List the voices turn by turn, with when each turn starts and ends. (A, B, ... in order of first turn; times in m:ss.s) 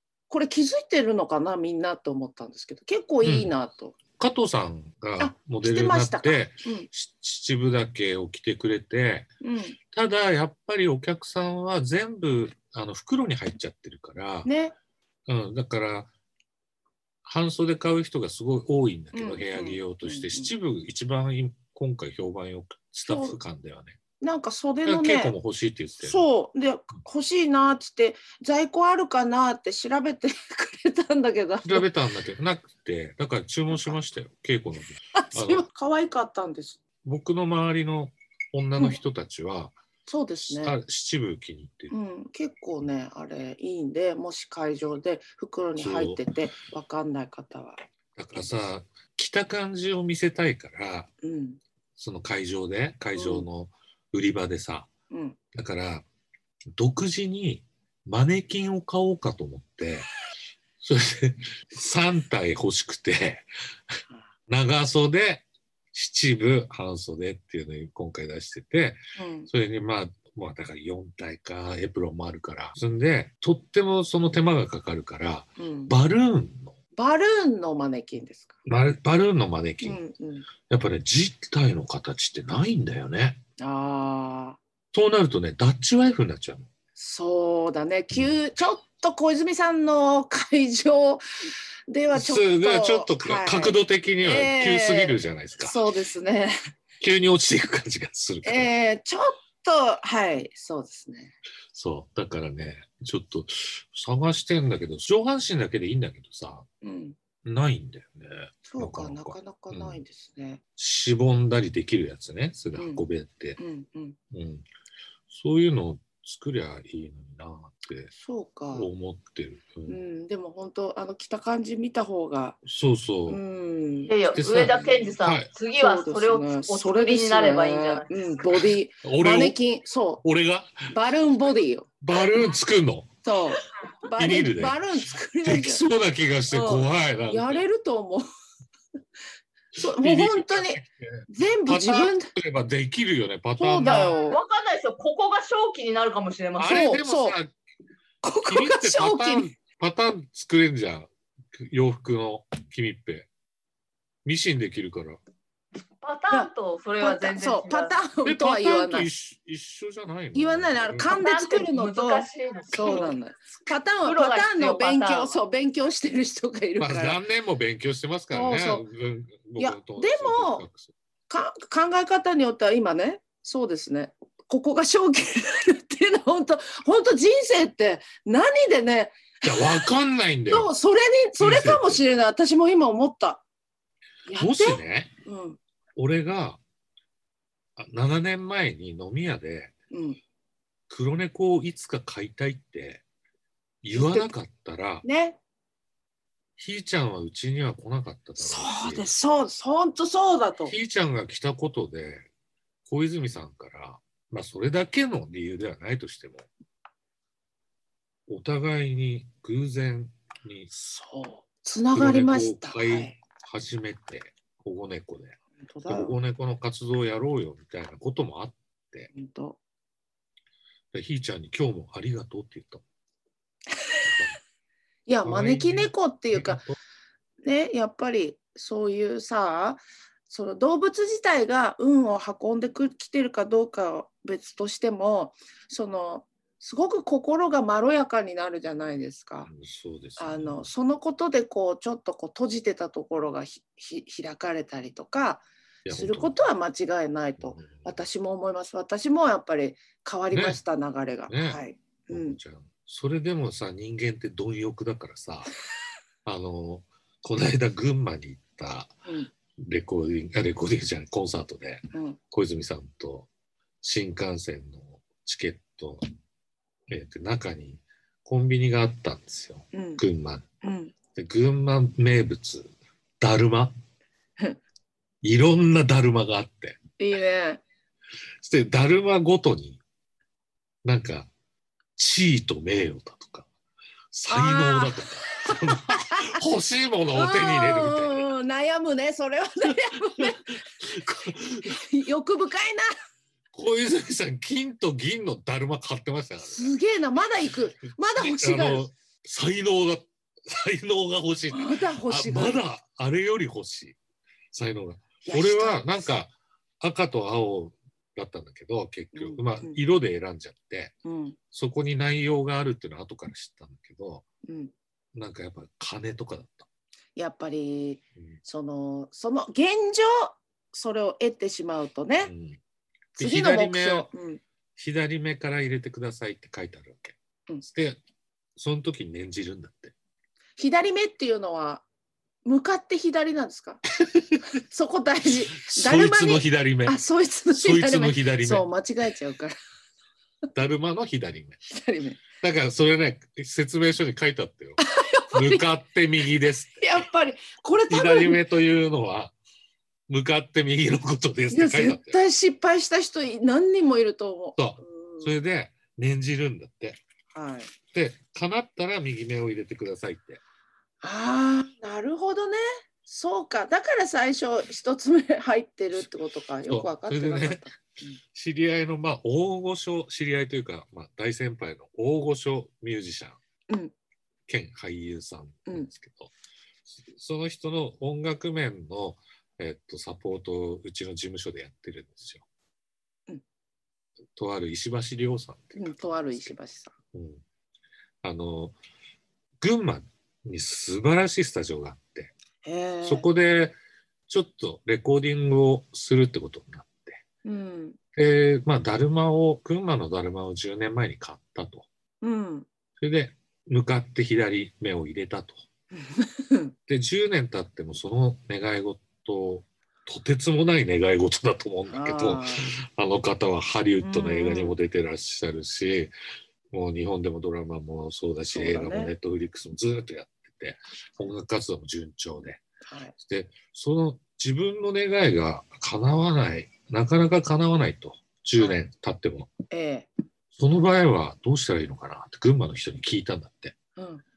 0:00.3-0:04.0 A
0:03.2-0:03.5 B
0:04.2-0:09.3 B
0:05.2-0:06.9 A
0:09.4-0:09.8 A
0:09.9-0:14.5 B
0:14.5-0:14.7 A
0:15.3-0:16.1 B
0:17.2-0:24.0 B
0:19.1-0:20.5 A
0:23.1-0:23.4 A
0:24.2-0:25.4 A
0:24.8-0:26.3 B
0:26.0-0:31.9 A
0:31.6-0:35.6 B
0:33.7-0:34.0 A
0:35.2-0:36.8 A
0:37.0-0:39.8 B
0:40.1-0:40.8 A
0:40.4-0:41.9 B
0:41.9-0:47.8 A
0:45.8-0:46.2 B
0:48.2-0:51.1 B
0:51.2-0:51.6 A
0:52.0-0:54.9 B
0:53.2-0:53.5 A
0:55.1-0:55.4 A
0:55.5-0:56.0 B
0:56.8-1:00.1 B
1:00.8-1:03.5 B
1:04.5-1:16.8 B
1:09.2-1:09.5 A
1:15.6-1:15.9 A
1:16.9-1:18.6 A
1:18.7-1:20.0 B
1:19.8-1:20.5 A
1:20.7-1:23.4 B
1:23.6-1:24.6 A
1:24.9-1:26.7 B
1:27.0-1:36.6 A
1:28.1-1:28.4 B
1:32.1-1:35.8 B
1:37.0-1:38.7 B
1:38.4-1:41.4 A
1:41.7-1:46.7 B
1:46.8-1:47.2 A
1:47.4-1:50.0 B
1:48.7-1:50.6 A
1:50.8-1:53.6 B
1:52.8-1:53.0 A
1:53.6-1:54.2 A
1:54.3-1:54.7 B
1:55.3-1:58.1 B
1:58.2-1:58.9 A
1:58.7-2:00.0 B
1:59.9-2:02.6 A
2:02.6-2:03.4 B
2:03.3-2:05.2 A
2:04.1-2:08.5 C
2:04.4-2:05.5 B
2:05.8-2:10.2 A
2:09.0-2:09.6 B
2:10.2-2:10.9 B
2:10.9-2:12.0 A
2:12.0-2:13.1 B
2:13.2-2:15.8 A
2:14.2-2:14.8 B
2:15.4-2:17.6 B
2:16.5-2:18.2 A
2:19.8-2:22.3 A
2:19.8-2:24.2 B
2:23.6-2:24.4 A
2:24.2-2:26.8 C
2:26.6-2:27.5 B
2:26.6-2:27.4 A
2:28.2-2:29.5 A
2:28.5-2:33.3 B
2:34.2-2:35.2 B
2:36.0-2:38.0 C
2:36.3-2:39.1 A
2:38.2-2:41.1 B
2:40.3-2:47.2 A
2:41.0-2:43.2 C
2:44.0-2:45.4 C
2:46.8-2:50.9 B
2:48.3-2:48.9 A
2:49.6-2:50.6 A
2:51.3-2:59.9 A
2:59.4-3:00.7 B
3:00.5-3:03.4 A
3:01.4-3:02.0 B
3:04.3-3:05.6 A
3:04.4-3:05.1 B
3:06.0-3:06.6 B
3:07.8-3:09.7 B
3:09.9-3:10.2 A
3:10.9-3:13.0 B
3:13.8-3:15.0 B
3:13.9-3:14.3 A
3:15.0-3:15.4 A
3:16.6-3:19.1 B
3:18.4-3:20.8 A
3:20.7-3:22.3 B
3:22.9-3:26.5 B
3:28.3-3:30.7 B
3:30.7-3:33.2 A
3:31.9-3:39.1 B
3:35.6-3:36.2 A
3:39.1-3:39.6 A
3:40.9-3:42.8 B
3:44.0-3:44.4 B
3:45.1-3:46.6 A
3:45.2-3:46.8 B
3:47.4-3:59.5 A
3:59.5-4:00.7 B
4:00.2-4:12.4 A
4:05.8-4:06.4 B
4:07.4-4:08.0 B
4:10.3-4:10.6 B
4:11.3-4:15.5 B
4:16.2-4:19.0 B
4:19.6-4:23.3 B
4:21.9-4:22.2 A
4:23.8-4:26.1 B
4:26.9-4:30.4 B
4:29.7-4:30.0 A
4:30.6-4:30.9 A
4:31.1-4:33.7 B
4:35.2-4:36.8 B
4:37.0-4:37.6 A
4:38.4-4:39.8 B
4:40.8-4:41.3 B
4:42.0-4:43.5 B
4:44.1-4:48.3 B
4:44.3-4:46.4 A
4:47.2-4:50.6 A
4:50.1-4:51.8 B
4:51.6-4:52.9 A
4:53.5-4:56.7 B
4:56.5-4:58.9 A
4:58.2-5:04.0 B
5:01.5-5:02.6 A
5:04.5-5:10.9 B
5:05.2-5:06.1 A
5:09.2-5:09.8 A
5:11.0-5:11.4 A
5:11.5-5:14.2 B
5:14.4-5:14.7 A
5:15.1-5:16.7 B
5:17.2-5:22.3 A
5:22.2-5:22.6 B
5:23.2-5:24.1 B
5:23.2-5:24.4 A
5:24.8-5:28.0 B
5:28.6-5:29.9 B
5:30.6-5:31.8 A
5:32.4-5:33.8 A
5:34.0-5:34.5 B
5:34.7-5:39.6 A
5:35.5-5:37.0 B
5:37.5-5:38.7 B
5:40.5-5:41.6 B
5:41.7-5:42.2 A
5:42.4-5:47.0 B
5:44.8-5:45.7 A
5:46.8-5:48.4 A
5:47.9-5:49.3 B
5:50.1-5:52.2 B
5:51.5-5:55.4 A
5:54.6-5:57.0 B
5:57.3-5:57.7 A
5:57.9-6:00.4 B
6:01.0-6:08.2 A
6:06.7-6:07.7 B
6:08.3-6:13.4 B
6:14.5-6:16.3 B
6:17.1-6:22.4 B
6:24.4-6:26.5 B
6:25.8-6:26.9 A
6:27.1-6:27.4 B
6:28.2-6:28.8 B
6:29.6-6:32.3 B
6:32.6-6:33.3 A
6:33.0-6:33.8 B
6:34.3-6:37.2 B
6:37.4-6:38.0 A
6:38.2-6:41.9 B
6:42.2-6:42.7 A
6:43.0-6:45.7 B
6:45.9-6:46.8 A
6:46.9-6:56.1 B
6:51.9-6:52.7 A
6:54.0-6:54.8 A
6:56.7-7:02.6 B
6:58.5-6:59.1 A
7:02.9-7:03.1 A
7:03.2-7:09.5 B
7:09.7-7:10.1 A
7:10.6-7:13.8 B
7:14.0-7:14.2 A